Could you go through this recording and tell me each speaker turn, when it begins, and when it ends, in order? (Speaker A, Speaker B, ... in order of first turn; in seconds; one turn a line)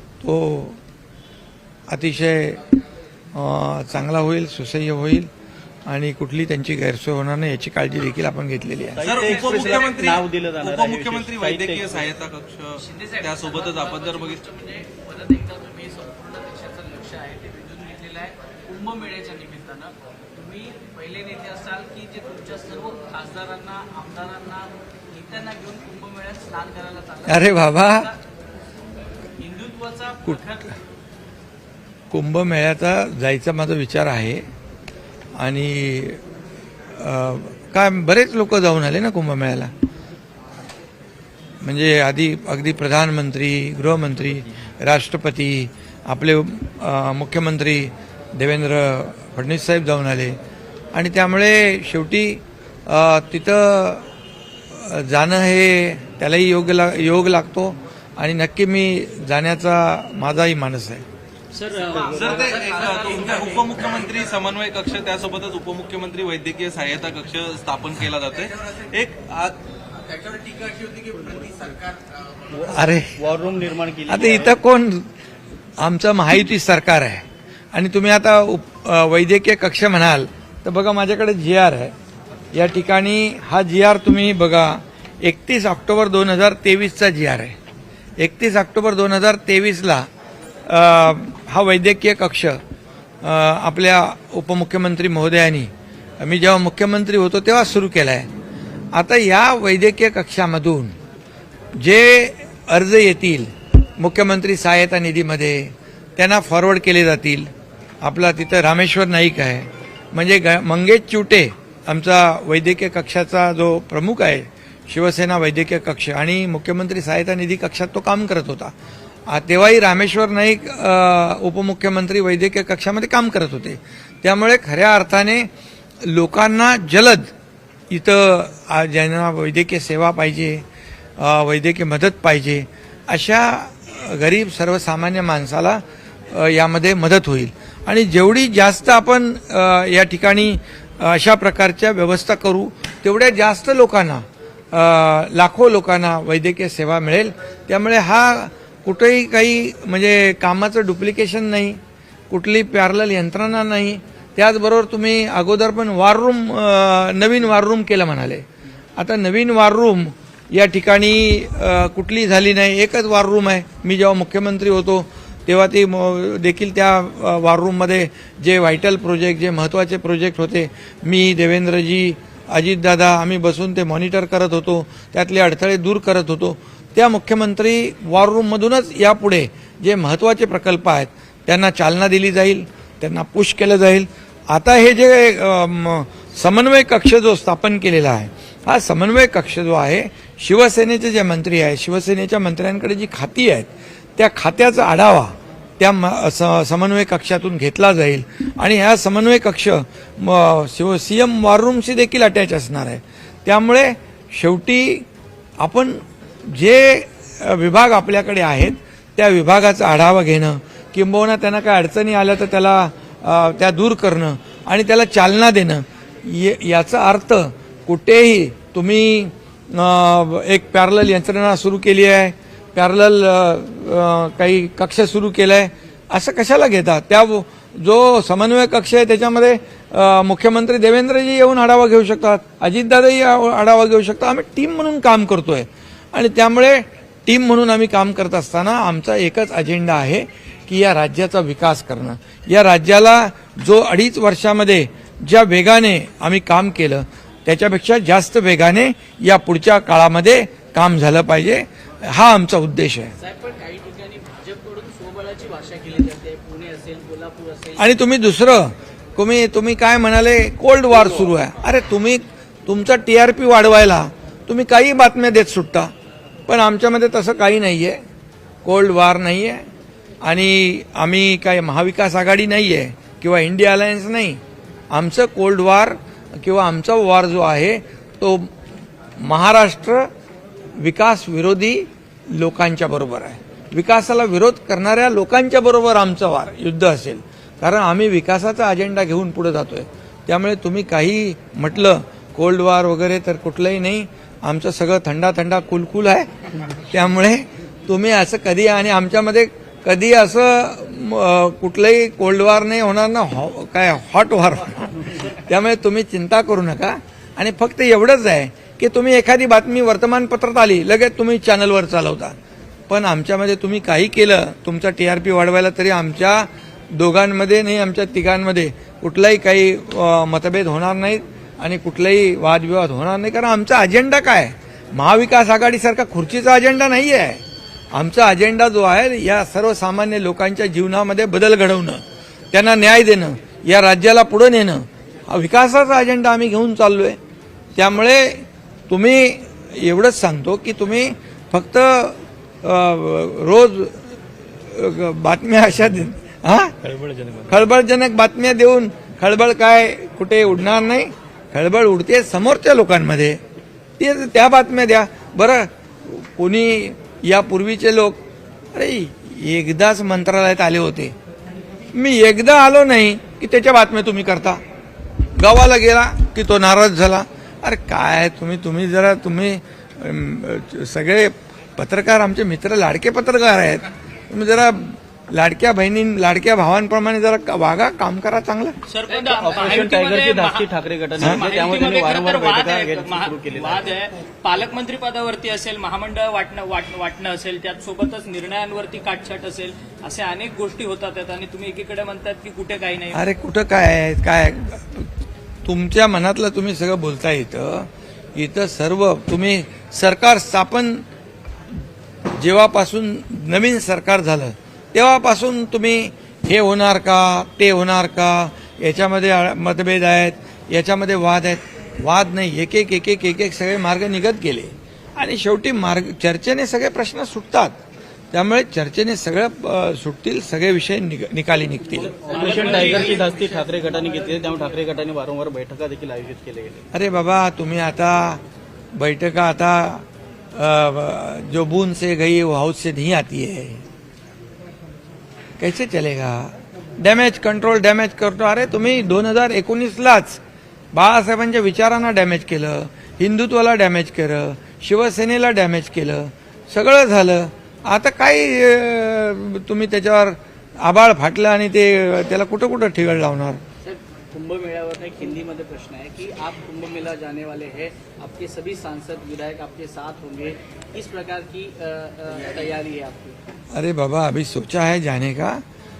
Speaker A: 0.2-0.8
Speaker A: 1.9-2.6
Speaker A: 3.3-5.3
Speaker A: 5.9-9.0
Speaker B: 9.0-12.1
Speaker C: 9.0-14.4
Speaker D: 9.4-9.7
Speaker D: 12.8-28.2
Speaker A: 27.2-28.1
Speaker D: 29.4-30.8
Speaker A: 32.1-34.5
Speaker A: 35.4-36.2
Speaker A: 36.9-39.7
Speaker A: 41.6-50.4
Speaker A: 50.9-54.1
Speaker A: 54.7-61.0
Speaker E: 61.5-62.1
Speaker D: 61.9-63.7
Speaker C: 62.0-69.5
Speaker B: 72.5-74.6
Speaker A: 72.7-73.2
Speaker A: 74.1-75.1
Speaker A: 75.8-81.9
Speaker A: 82.5-87.5
Speaker A: 88.2-90.1
Speaker A: 90.7-92.6
Speaker A: 93.2-98.3
Speaker A: 98.9-101.0
Speaker A: 101.8-107.5
Speaker A: 108.0-118.7
Speaker A: 119.3-125.5
Speaker A: 126.0-127.3
Speaker A: 127.9-130.6
Speaker A: 131.2-158.4
Speaker A: 159.0-205.1
Speaker A: 205.6-253.1
Speaker D: 253.2-257.9
Speaker A: 257.8-265.9
Speaker A: 266.5-268.0
Speaker A: 268.6-269.6
Speaker A: 270.2-274.4
Speaker A: 274.9-278.5
Speaker A: 279.2-280.1
Speaker A: 280.8-296.3
Speaker A: 296.9-312.3
Speaker A: 312.9-327.4
Speaker A: 327.9-337.2
Speaker A: 337.7-346.9
Speaker B: 346.9-347.4
Speaker A: 347.5-353.4
Speaker A: 354.0-358.2
Speaker A: 358.7-361.1
Speaker A: 361.9-364.6
Speaker A: 365.3-378.8
Speaker E: 378.9-393.2
Speaker B: 379.3-383.9
Speaker A: 381.2-381.4
Speaker A: 393.1-395.1
Speaker A: 395.6-401.0
Speaker A: 402.2-417.8
Speaker A: 418.3-422.2
Speaker D: 421.9-424.8
Speaker B: 422.2-426.9
Speaker E: 422.3-423.2
Speaker A: 426.9-428.4
Speaker A: 428.9-433.9
Speaker A: 435.6-440.4
Speaker A: 440.9-453.6
Speaker D: 453.8-463.4
Speaker A: 463.7-465.6